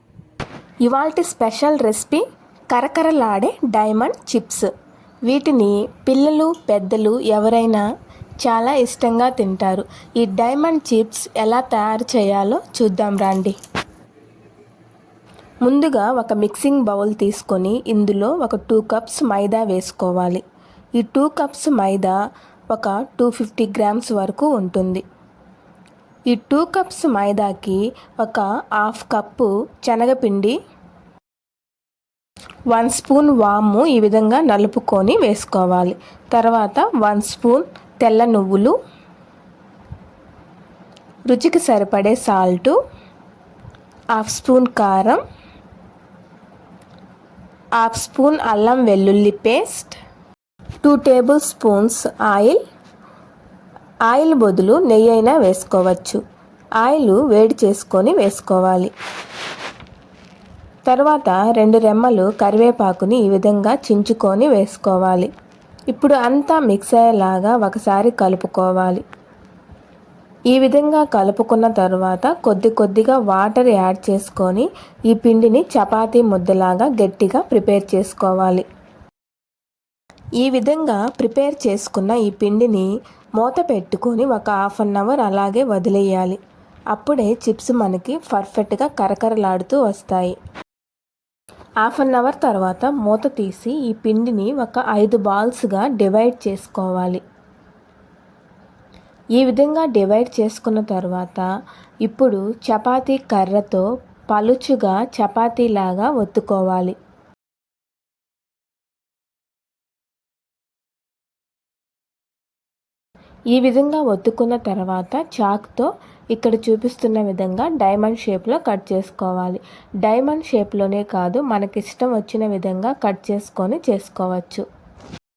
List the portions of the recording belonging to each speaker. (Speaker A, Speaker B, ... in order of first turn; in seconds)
Speaker A: 0.8-4.7, 5.3-7.8, 8.4-13.6, 15.6-20.4, 21.0-22.1, 22.7-25.0, 26.3-30.6, 32.7-38.7, 41.3-42.8, 44.2-45.2, 47.8-50.0, 50.8-52.6, 54.1-56.2, 56.8-58.9, 60.9-65.3, 65.9-69.0, 70.5-78.7, 80.4-86.4, 86.9-90.4, 91.8-97.2, 99.4-101.5, 102.0-107.0, 113.5-124.7